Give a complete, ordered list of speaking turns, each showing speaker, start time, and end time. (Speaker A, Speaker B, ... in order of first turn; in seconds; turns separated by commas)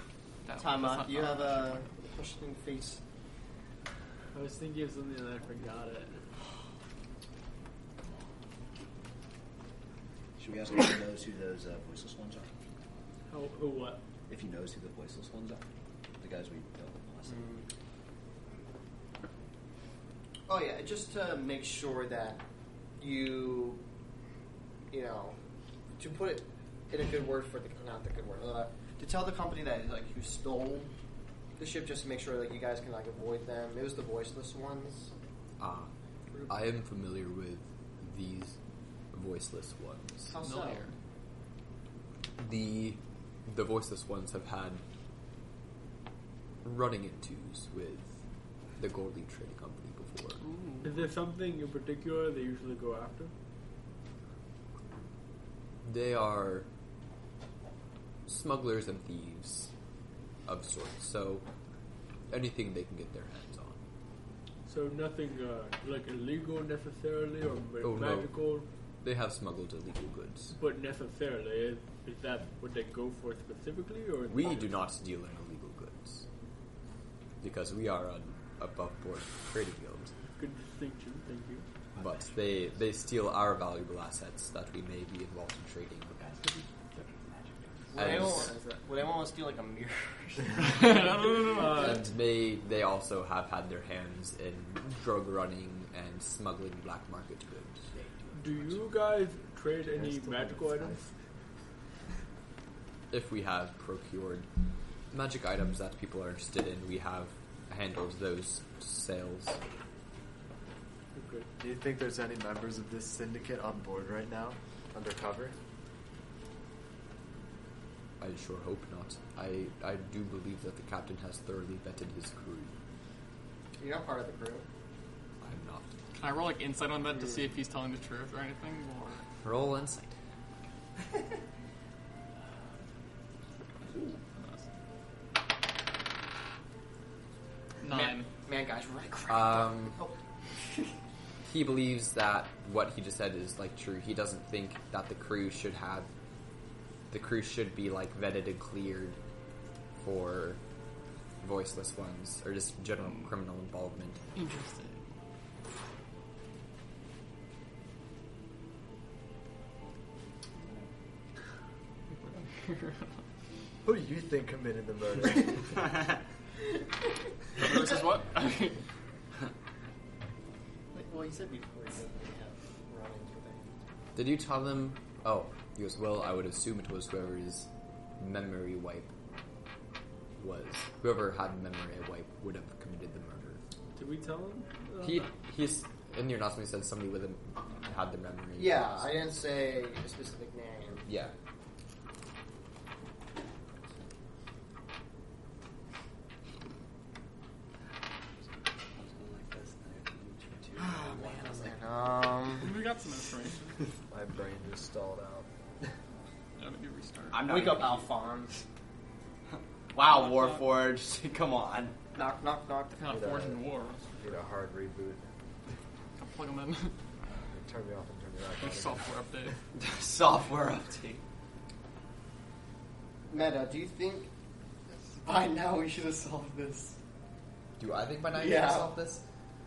Speaker A: 0.4-1.9, Speaker B: 0.6-3.0, Speaker C: 4.3-6.2, Speaker D: 10.4-12.5, Speaker C: 13.3-14.0, Speaker D: 14.3-15.6, Speaker D: 16.2-17.5, Speaker B: 17.3-17.6, Speaker B: 20.5-22.4, Speaker B: 23.0-23.8, Speaker B: 24.9-25.4, Speaker B: 26.0-30.9, Speaker B: 31.6-35.1, Speaker E: 35.6-35.9, Speaker E: 36.5-38.6, Speaker E: 39.1-40.3, Speaker B: 40.2-40.9, Speaker A: 40.4-40.9, Speaker E: 42.4-44.8, Speaker E: 46.6-48.1, Speaker E: 48.8-50.4, Speaker A: 50.4-50.9, Speaker C: 50.8-53.3, Speaker E: 55.8-56.7, Speaker E: 58.3-59.7, Speaker E: 60.5-61.4, Speaker E: 62.3-63.8, Speaker C: 64.7-68.7, Speaker E: 67.8-70.5, Speaker C: 70.5-74.7, Speaker E: 74.3-76.2, Speaker E: 77.4-80.1, Speaker C: 80.3-81.6, Speaker D: 82.0-82.3, Speaker E: 82.0-86.3, Speaker D: 86.2-86.6, Speaker B: 87.9-91.3, Speaker E: 87.9-88.5, Speaker C: 88.0-88.8, Speaker A: 90.5-91.9, Speaker C: 91.3-92.0, Speaker E: 91.6-97.9, Speaker C: 98.3-101.0, Speaker F: 99.9-101.1, Speaker E: 103.1-104.5, Speaker E: 105.1-109.6, Speaker C: 111.1-111.5, Speaker F: 111.6-115.5, Speaker E: 118.2-122.7, Speaker B: 123.8-124.7, Speaker E: 125.4-125.9, Speaker A: 126.1-129.2, Speaker E: 129.4-130.1, Speaker A: 134.0-134.7, Speaker A: 137.8-138.3, Speaker B: 137.8-140.1, Speaker E: 139.3-140.0, Speaker E: 141.4-146.1, Speaker E: 147.1-149.2, Speaker E: 150.0-150.6, Speaker E: 151.4-154.2, Speaker A: 154.3-155.2, Speaker A: 162.2-163.2, Speaker F: 163.8-165.8, Speaker A: 167.6-168.8, Speaker B: 167.6-167.9, Speaker B: 170.9-173.7, Speaker E: 174.2-177.7, Speaker E: 178.2-179.1, Speaker E: 180.4-183.6, Speaker C: 183.9-185.3, Speaker E: 185.0-189.2, Speaker B: 188.6-191.1, Speaker E: 191.1-191.3, Speaker G: 198.9-201.8, Speaker B: 200.8-202.7, Speaker A: 202.6-203.8, Speaker F: 204.1-205.5, Speaker A: 206.6-207.4, Speaker G: 207.3-208.2, Speaker B: 207.4-208.6, Speaker G: 209.9-211.9, Speaker A: 210.1-210.8, Speaker B: 212.1-212.9, Speaker A: 212.9-214.2, Speaker F: 213.1-213.6, Speaker F: 214.1-215.3, Speaker A: 216.2-216.9, Speaker F: 217.5-219.1, Speaker A: 218.6-219.6, Speaker G: 219.8-221.2, Speaker B: 223.3-224.3, Speaker B: 225.2-227.0, Speaker E: 227.8-229.2, Speaker B: 228.3-228.9